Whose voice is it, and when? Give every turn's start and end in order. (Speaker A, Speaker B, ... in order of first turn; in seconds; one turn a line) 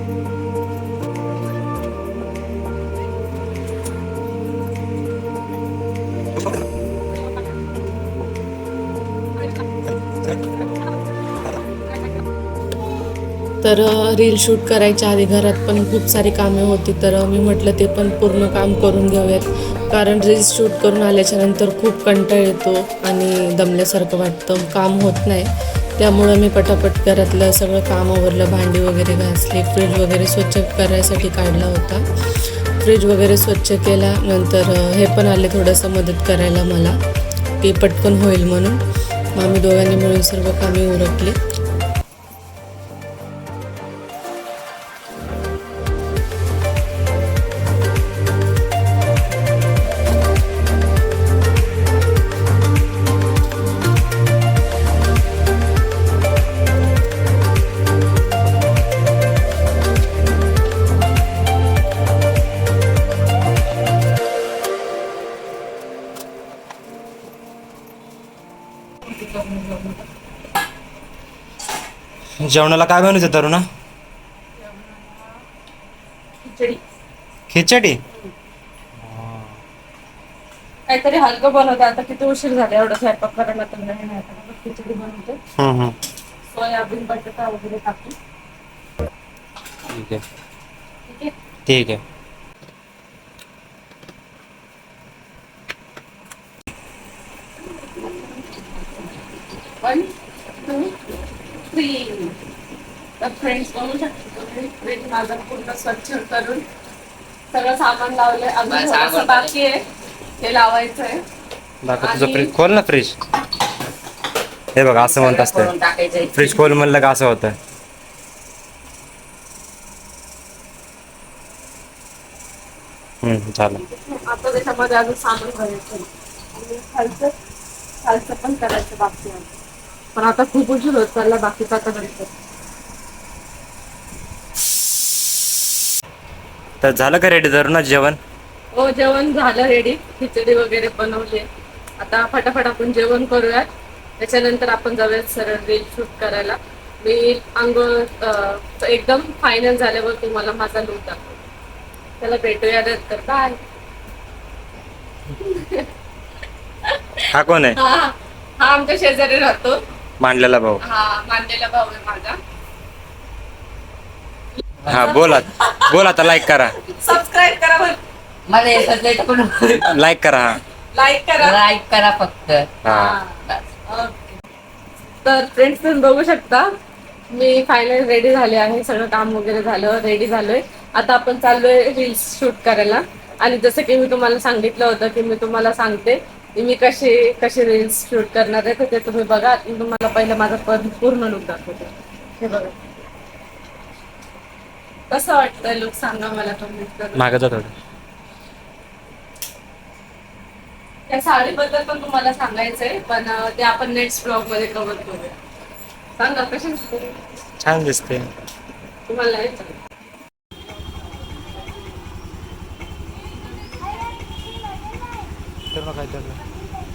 Speaker A: 13.6-32.0
Speaker A: 32.8-37.0
Speaker A: 37.6-38.8
Speaker A: 39.3-41.4
Speaker B: 69.0-70.0
Speaker C: 72.4-73.6
Speaker B: 74.6-75.4
Speaker B: 76.4-76.8
Speaker C: 77.5-78.0
Speaker C: 79.0-79.6
Speaker B: 80.9-85.4
Speaker C: 85.6-85.9
Speaker B: 86.5-88.2
Speaker C: 89.9-90.2
Speaker B: 91.1-91.3
Speaker C: 91.7-92.0
Speaker B: 97.8-98.7
Speaker B: 99.8-101.0
Speaker B: 101.6-102.4
Speaker B: 103.2-106.6
Speaker B: 107.5-109.8
Speaker D: 108.7-109.5
Speaker B: 110.4-111.2
Speaker C: 111.8-113.2
Speaker B: 112.0-112.5
Speaker C: 114.8-115.7
Speaker D: 114.9-116.6
Speaker C: 116.3-117.5
Speaker C: 123.2-123.8
Speaker B: 123.8-127.3
Speaker B: 128.0-129.6
Speaker B: 130.1-132.3
Speaker C: 136.8-138.2
Speaker B: 138.7-141.5
Speaker B: 142.0-151.2
Speaker B: 152.2-153.6
Speaker B: 155.4-155.9
Speaker B: 156.8-159.8
Speaker C: 157.3-157.8
Speaker C: 160.2-160.8
Speaker B: 160.8-162.4
Speaker B: 164.6-168.0
Speaker D: 164.8-165.5
Speaker C: 164.9-166.7
Speaker D: 168.5-170.0
Speaker C: 169.8-170.6
Speaker B: 170.9-171.6
Speaker D: 171.4-172.8
Speaker C: 172.8-173.2
Speaker B: 172.8-174.4
Speaker B: 175.2-176.7
Speaker B: 177.3-192.8
Speaker B: 195.1-197.2
Speaker C: 197.2-197.7
Speaker B: 201.1-205.3
Speaker B: 206.2-207.2
Speaker C: 207.6-208.3
Speaker B: 209.1-209.8
Speaker C: 215.7-216.4